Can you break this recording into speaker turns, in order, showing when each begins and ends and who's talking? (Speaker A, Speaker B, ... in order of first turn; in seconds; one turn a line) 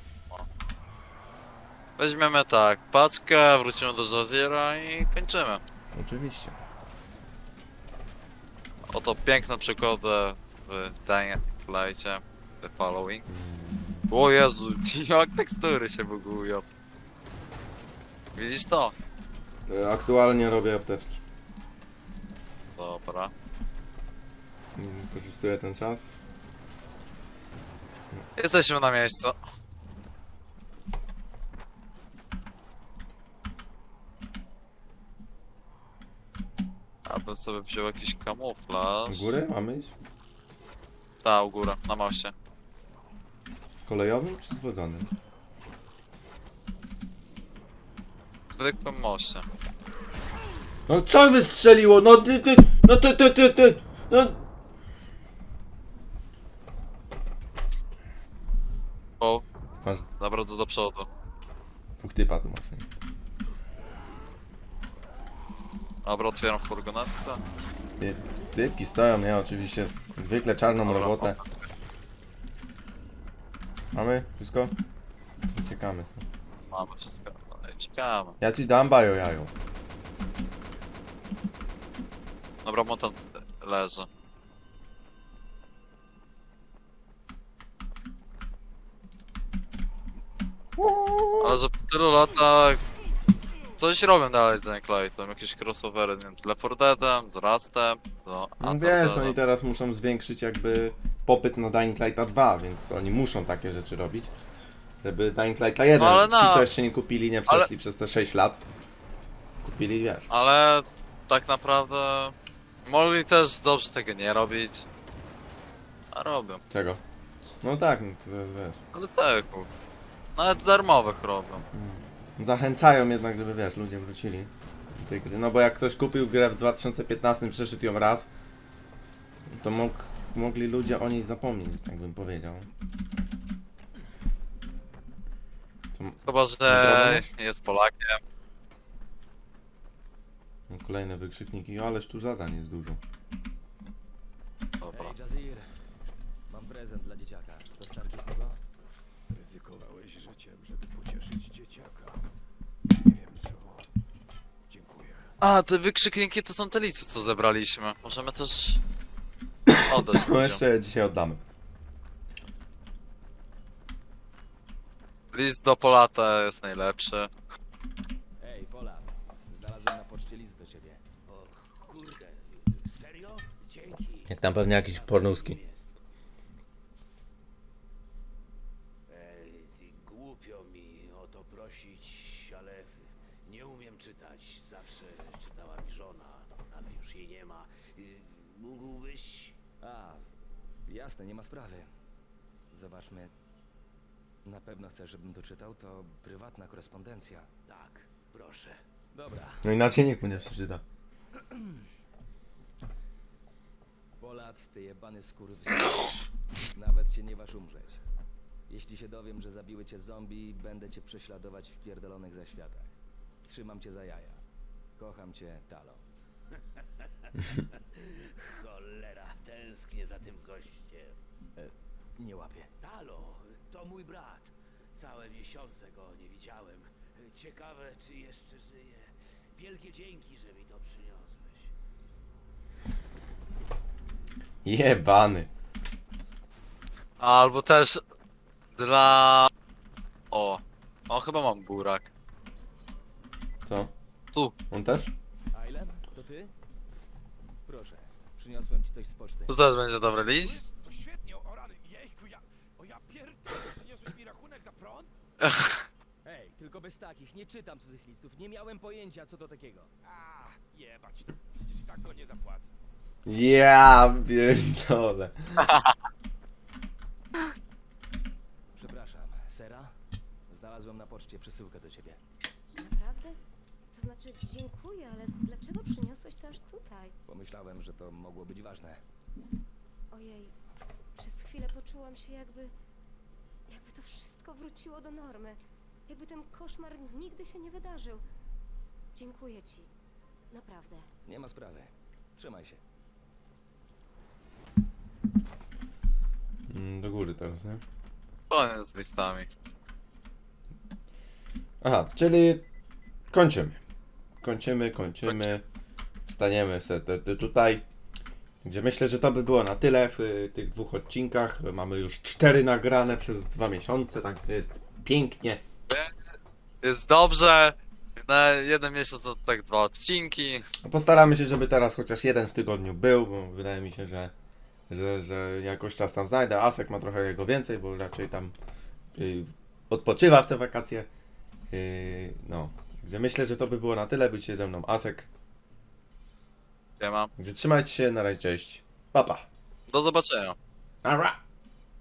Speaker A: 2.0-5.6
Speaker B: 5.9-6.6
Speaker A: 8.9-13.2
Speaker B: 13.3-14.1
Speaker A: 14.1-16.6
Speaker A: 18.4-18.9
Speaker B: 19.7-21.2
Speaker A: 22.8-23.3
Speaker B: 24.8-26.1
Speaker A: 28.4-29.4
Speaker A: 37.1-39.4
Speaker B: 39.1-39.9
Speaker A: 41.2-42.3
Speaker B: 43.9-45.1
Speaker A: 48.5-49.5
Speaker B: 50.9-54.5
Speaker A: 60.2-61.1
Speaker B: 62.0-62.9
Speaker A: 66.0-67.4
Speaker B: 68.0-71.4
Speaker A: 70.8-71.5
Speaker B: 73.9-74.8
Speaker B: 75.5-76.2
Speaker A: 76.7-78.4
Speaker B: 78.4-79.5
Speaker A: 82.7-84.1
Speaker B: 90.8-91.6
Speaker A: 91.4-92.9
Speaker A: 93.8-99.4
Speaker B: 98.6-104.3
Speaker B: 105.0-108.6
Speaker A: 106.0-106.7
Speaker B: 109.6-110.3
Speaker A: 110.3-112.3
Speaker A: 112.9-114.9
Speaker A: 116.1-116.6
Speaker B: 116.7-117.0
Speaker B: 117.6-118.8
Speaker A: 118.9-119.7
Speaker A: 120.4-121.6
Speaker B: 121.6-128.3
Speaker B: 129.5-132.7
Speaker B: 135.9-137.3
Speaker A: 136.2-138.2
Speaker B: 140.7-143.0
Speaker A: 144.8-145.1
Speaker C: 144.9-145.7
Speaker C: 146.5-148.6
Speaker D: 149.3-152.2
Speaker D: 153.0-153.9
Speaker D: 154.7-155.3
Speaker A: 155.4-158.8
Speaker B: 159.7-161.4
Speaker A: 159.9-160.6
Speaker A: 165.3-167.3
Speaker C: 168.4-171.0
Speaker D: 171.3-176.0
Speaker B: 174.3-175.6
Speaker D: 179.1-189.6
Speaker C: 189.8-190.3
Speaker C: 190.9-191.9
Speaker C: 192.7-193.3
Speaker C: 194.4-197.5
Speaker D: 197.7-198.8
Speaker C: 199.1-200.3
Speaker B: 199.6-200.8
Speaker C: 201.3-201.9
Speaker C: 204.2-206.1
Speaker C: 206.7-208.0
Speaker C: 208.7-212.9
Speaker C: 213.5-214.4
Speaker C: 215.0-216.1
Speaker D: 216.5-221.2
Speaker C: 221.6-222.7
Speaker D: 222.8-231.7
Speaker B: 234.6-235.5
Speaker A: 237.2-238.0
Speaker A: 238.8-239.5
Speaker A: 240.3-242.1
Speaker B: 243.7-243.9
Speaker B: 244.7-245.1
Speaker C: 245.5-246.5
Speaker C: 247.7-249.6
Speaker A: 249.5-250.6
Speaker D: 250.2-255.1
Speaker A: 255.4-255.8
Speaker C: 256.2-259.9
Speaker D: 260.0-262.7
Speaker B: 263.3-265.8
Speaker A: 265.6-265.9
Speaker C: 268.8-269.9
Speaker C: 270.5-272.2
Speaker E: 272.8-273.4
Speaker E: 273.9-277.2
Speaker C: 277.2-279.0
Speaker E: 280.1-280.6
Speaker E: 281.1-282.8
Speaker E: 283.7-288.2
Speaker E: 289.1-289.9
Speaker E: 290.5-291.1
Speaker C: 291.3-292.8
Speaker B: 296.7-297.8
Speaker A: 298.5-299.5
Speaker B: 301.8-302.6
Speaker B: 303.3-303.8
Speaker B: 304.4-305.6
Speaker A: 305.2-305.6
Speaker B: 306.3-307.9
Speaker B: 308.6-315.6
Speaker A: 316.8-320.6
Speaker B: 320.8-324.3
Speaker B: 324.9-328.6
Speaker B: 329.1-331.1
Speaker B: 331.7-335.3
Speaker A: 337.0-337.3
Speaker B: 337.4-339.5
Speaker A: 339.9-340.6
Speaker B: 341.0-341.4